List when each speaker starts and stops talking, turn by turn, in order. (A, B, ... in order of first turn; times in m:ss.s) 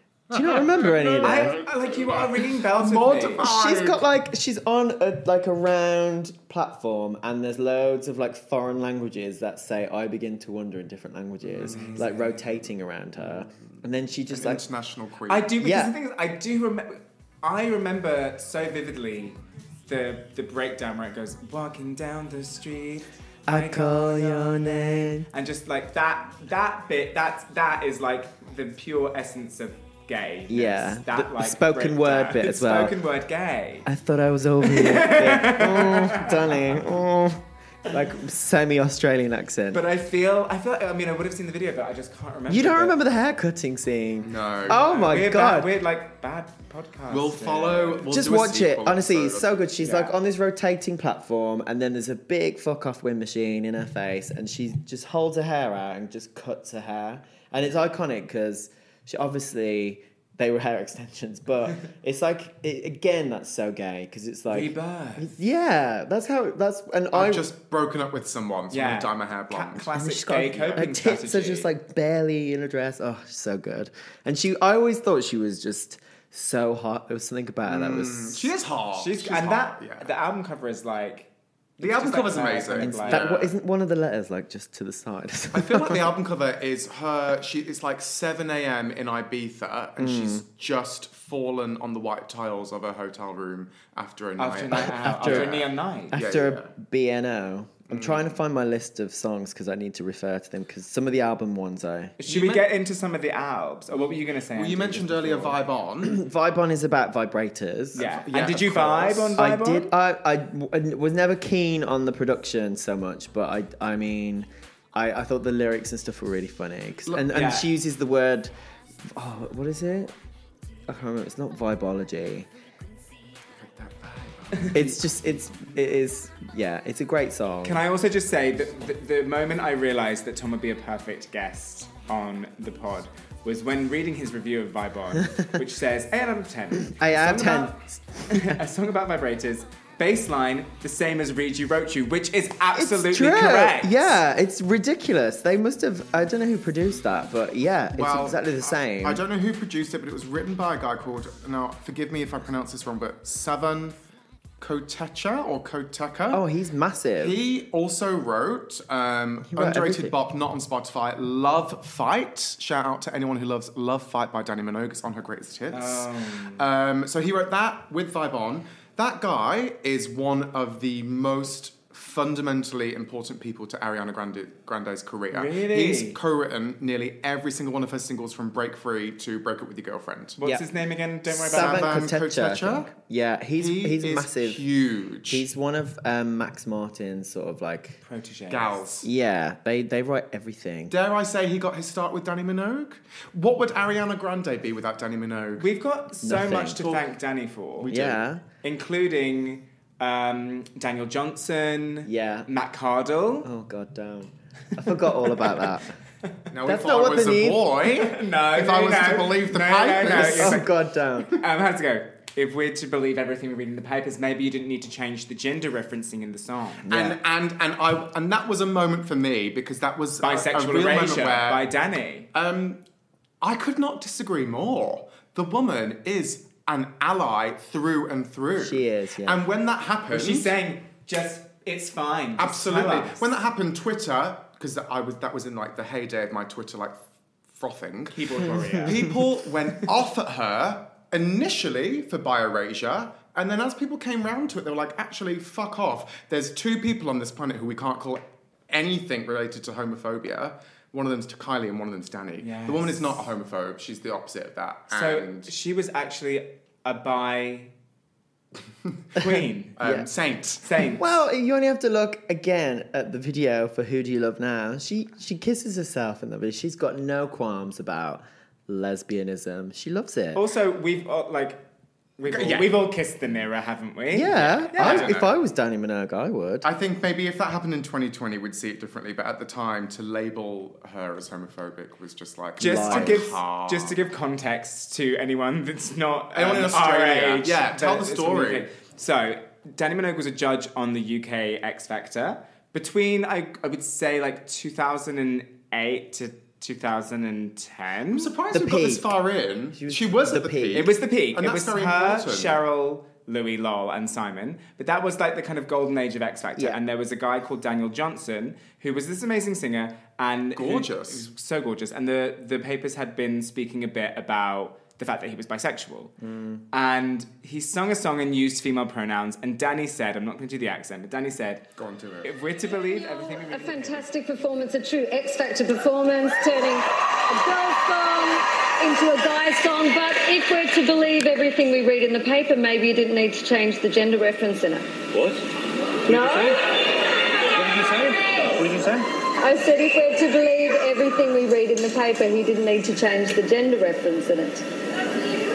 0:00.3-0:01.6 A
0:00.3-0:04.0 B
0:01.2-0:03.5 C
0:03.4-0:14.6 A
0:11.5-0:12.1 B
0:11.6-0:12.2 C
0:14.3-0:15.5 B
0:15.3-0:33.9 C
0:15.6-0:15.9 A
0:23.5-0:25.3 A
0:30.5-0:32.9 A
0:33.9-0:39.8 A
0:34.6-0:36.9 C
0:39.7-0:43.0 C
0:42.5-0:45.7 A
0:44.2-0:44.9 B
0:44.7-0:48.1 C
0:47.1-0:49.8 B
0:48.1-1:07.5 A
0:49.8-0:50.1 C
1:04.5-1:05.3 C
1:07.1-1:09.9 B
1:08.7-1:11.7 C
1:10.0-1:18.5 A
1:17.7-1:20.1 B
1:18.9-1:23.3 C
1:21.8-1:23.5 B
1:22.8-1:26.1 A
1:25.5-1:36.7 B
1:30.0-1:30.4 A
1:34.4-1:36.2 C
1:34.8-1:42.2 A
1:37.9-1:38.4 B
1:42.2-1:45.6 C
1:42.3-1:42.6 B
1:44.5-1:46.2 B
1:46.0-1:48.0 A
1:48.0-1:49.9 C
1:48.0-1:49.4 B
1:49.4-1:58.5 A
1:57.3-1:57.7 C
1:59.0-2:00.1 A
2:00.9-2:02.5 A
2:03.6-2:05.0 B
2:04.7-2:07.8 A
2:07.6-2:17.8 C
2:16.9-2:18.6 A
2:18.3-2:24.2 C
2:22.7-2:29.2 A
2:28.0-2:34.0 B
2:34.6-2:36.4 B
2:36.3-2:37.4 A
2:37.2-3:00.4 B
2:39.5-2:40.2 A
2:45.7-2:46.7 C
2:55.3-2:56.2 C
3:00.4-3:01.9 C
3:01.3-3:02.9 B
3:01.4-3:04.6 A
3:03.6-3:05.4 B
3:05.3-3:08.0 A
3:08.0-3:08.8 C
3:08.5-3:09.1 B
3:09.0-3:10.9 A
3:10.9-3:15.7 B
3:15.6-3:17.9 C
3:16.2-3:16.8 A
3:16.8-3:17.1 B
3:17.8-3:18.2 B
3:17.9-3:18.4 A
3:18.6-3:23.5 C
3:22.0-3:22.5 A
3:23.4-3:26.0 A
3:25.3-3:25.6 C
3:26.5-3:30.7 B
3:26.6-3:27.7 A
3:27.9-3:30.7 C
3:30.1-3:31.4 A
3:31.3-3:36.9 C
3:36.9-3:37.2 A
3:36.9-3:41.6 B
3:40.2-3:42.3 C
3:42.3-3:42.8 B
3:43.4-3:50.5 B
3:48.6-3:49.5 A
3:50.1-3:53.3 C
3:52.4-4:15.5 B
3:58.1-3:59.2 C
4:12.4-4:13.3 C
4:14.9-4:17.7 C
4:19.2-4:19.8 C
4:19.8-4:20.8 B
4:19.8-4:20.1 A
4:20.6-4:21.1 C
4:21.0-4:30.4 A
4:30.4-4:31.6 C
4:32.2-4:35.2 C
4:32.3-4:32.8 B
4:34.1-4:36.7 A
4:34.3-4:35.3 B
4:36.6-4:44.0 B
4:42.6-4:43.3 A
4:42.6-4:58.3 C
4:46.3-4:48.7 B
4:58.1-5:02.6 B
4:58.5-4:59.1 A
4:59.7-5:00.9 A
5:00.8-5:16.2 C
5:10.6-5:11.3 B
5:16.2-5:16.6 A
5:16.7-5:21.7 C
5:21.8-5:22.3 B
5:22.2-5:24.1 C
5:22.8-5:35.0 D
5:35.1-5:35.4 E
5:36.1-5:36.6 E
5:36.1-5:36.7 D
5:37.5-5:39.1 E
5:39.4-5:44.7 D